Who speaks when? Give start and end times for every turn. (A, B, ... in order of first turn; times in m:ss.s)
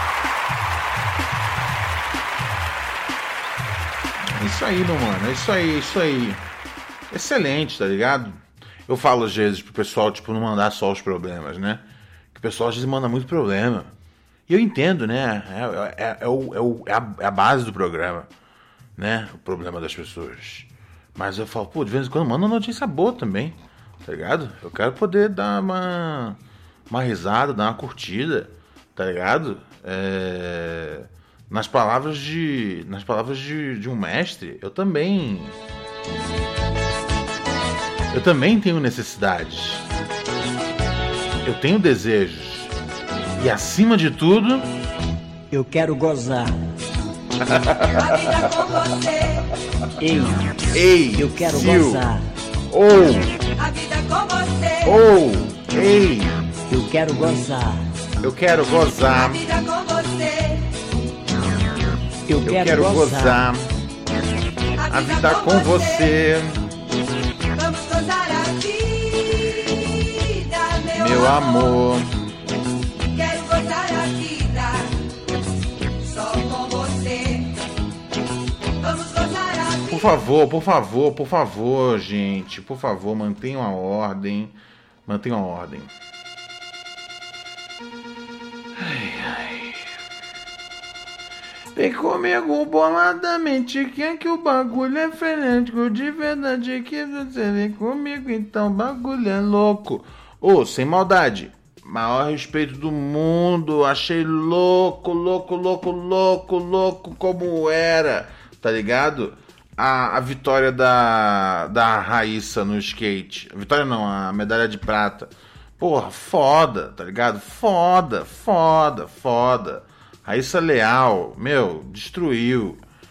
0:04.2-0:06.4 A
0:07.1-0:11.8 A
0:12.3-0:13.9 A
0:14.5-0:18.3 A
0:19.0-0:26.4 A
0:26.9-0:35.6 A
0:38.1-0:39.8 A
0:41.4-0:42.7 A
0:43.4-0:44.7 A
0:45.5-0:46.6 B
0:47.4-0:48.5 A
0:47.9-0:49.4 C
0:50.0-0:52.2 B
0:50.7-0:52.1 A
0:52.7-0:53.4 A
0:53.6-0:55.0 C
0:54.8-0:56.4 A
0:56.7-0:57.9 B
0:58.2-0:59.4 A
0:59.1-1:00.6 C
1:02.3-1:03.4 B
1:02.4-1:03.7 A
1:04.8-1:06.1 C
1:04.9-1:06.6 A
1:07.5-1:11.8 C
1:10.9-1:12.1 A
1:13.1-1:14.9 C
1:16.0-1:17.5 C
1:18.8-1:20.1 C
1:19.9-1:24.5 A
1:25.0-1:25.9 A
1:28.8-1:29.8 A
1:31.7-2:02.8 A